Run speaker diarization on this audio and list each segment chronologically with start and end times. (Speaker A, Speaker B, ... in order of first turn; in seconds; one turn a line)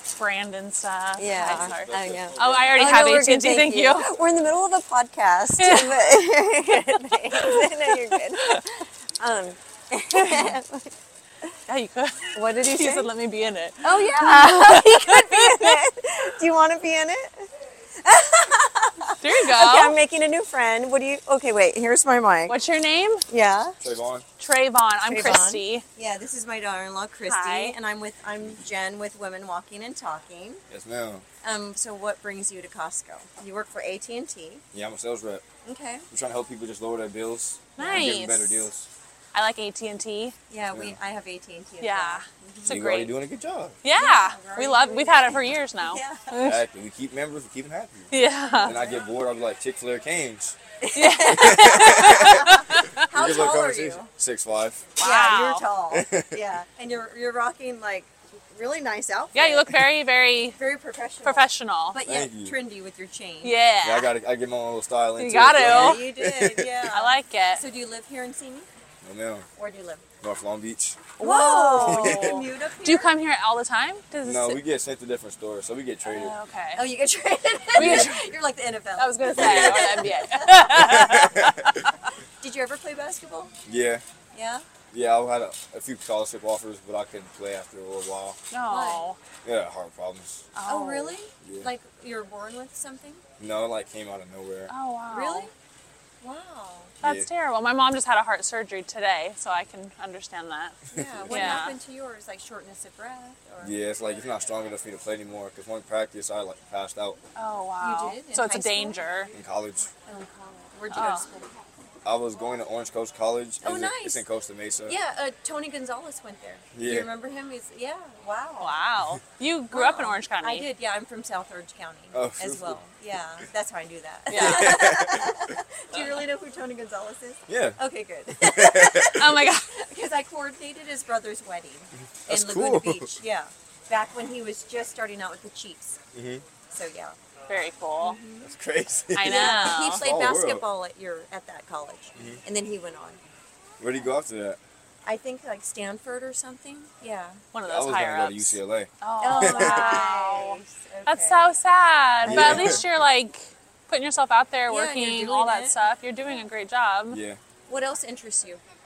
Speaker A: 0.1-4.1
Speaker B: 1.2-10.9
Speaker C: 1.8-2.8
Speaker A: 5.6-6.2
Speaker A: 7.3-8.6
Speaker A: 10.1-10.6
Speaker A: 11.7-15.8
Speaker B: 12.3-13.1
Speaker B: 13.8-17.5
Speaker B: 18.0-22.6
Speaker A: 19.2-20.0
Speaker A: 22.5-23.2
Speaker B: 23.3-23.8
Speaker C: 23.8-24.2
Speaker A: 24.4-25.8
Speaker B: 25.1-30.6
Speaker A: 27.3-27.8
Speaker C: 30.7-31.2
Speaker B: 31.4-34.6
Speaker C: 34.7-35.4
Speaker B: 35.6-36.1
Speaker C: 36.1-38.9
Speaker A: 37.8-38.7
Speaker B: 37.8-38.1
Speaker A: 39.3-40.4
Speaker B: 40.5-42.8
Speaker A: 41.8-43.1
Speaker C: 42.7-43.8
Speaker A: 43.8-46.6
Speaker B: 44.0-46.3
Speaker C: 46.4-48.1
Speaker A: 48.1-48.8
Speaker B: 48.5-49.0
Speaker C: 48.6-50.6
Speaker B: 50.8-54.1
Speaker A: 51.0-53.0
Speaker C: 51.3-52.6
Speaker C: 53.1-54.9
Speaker A: 55.0-55.6
Speaker B: 55.0-59.9
Speaker C: 55.9-56.4
Speaker A: 59.4-60.6
Speaker B: 60.6-63.5
Speaker A: 61.2-62.0
Speaker C: 62.1-62.5
Speaker A: 63.4-64.1
Speaker C: 63.8-66.8
Speaker A: 65.2-66.0
Speaker B: 65.6-68.7
Speaker A: 66.9-67.6
Speaker C: 69.0-69.5
Speaker B: 69.6-70.0
Speaker C: 70.2-71.1
Speaker B: 71.2-73.1
Speaker A: 71.2-74.6
Speaker C: 71.8-72.5
Speaker C: 74.2-76.3
Speaker A: 76.1-76.8
Speaker B: 76.8-81.9
Speaker A: 77.7-78.3
Speaker C: 77.8-78.1
Speaker A: 79.0-81.9
Speaker C: 79.3-80.1
Speaker C: 80.8-81.7
Speaker B: 82.4-83.5
Speaker C: 83.7-84.0
Speaker B: 84.3-84.6
Speaker C: 84.9-88.4
Speaker A: 88.5-89.2
Speaker B: 88.7-89.0
Speaker C: 89.4-90.5
Speaker A: 90.5-91.2
Speaker B: 90.7-93.2
Speaker C: 91.4-91.7
Speaker C: 93.4-94.7
Speaker A: 94.7-95.5
Speaker B: 95.1-95.5
Speaker B: 96.2-96.9
Speaker A: 97.0-100.8
Speaker C: 97.0-97.3
Speaker B: 100.9-103.7
Speaker C: 101.0-101.7
Speaker A: 101.3-101.8
Speaker C: 103.6-107.2
Speaker A: 107.4-109.3
Speaker B: 107.8-109.3
Speaker C: 109.3-109.9
Speaker B: 110.1-111.5
Speaker A: 110.9-111.3
Speaker C: 112.0-115.0
Speaker B: 113.6-114.2
Speaker B: 114.9-118.8
Speaker C: 116.8-117.1
Speaker A: 118.6-120.7
Speaker B: 119.7-136.0
Speaker C: 122.1-122.8
Speaker A: 124.3-124.8
Speaker C: 124.3-125.6
Speaker C: 127.5-127.8
Speaker C: 128.3-129.2
Speaker A: 129.1-129.7
Speaker C: 132.3-133.1
Speaker C: 136.1-136.4
Speaker B: 136.7-137.2
Speaker A: 137.5-138.2
Speaker B: 138.0-138.5
Speaker C: 138.4-140.7
Speaker A: 139.2-140.0
Speaker B: 139.2-143.2
Speaker C: 142.2-142.4
Speaker C: 143.8-144.6
Speaker B: 145.1-147.4
Speaker A: 147.5-157.2
Speaker C: 147.7-150.0
Speaker B: 149.2-151.5
Speaker C: 152.2-152.8
Speaker B: 152.3-152.8
Speaker B: 154.7-155.8
Speaker C: 157.1-157.4
Speaker B: 157.7-158.6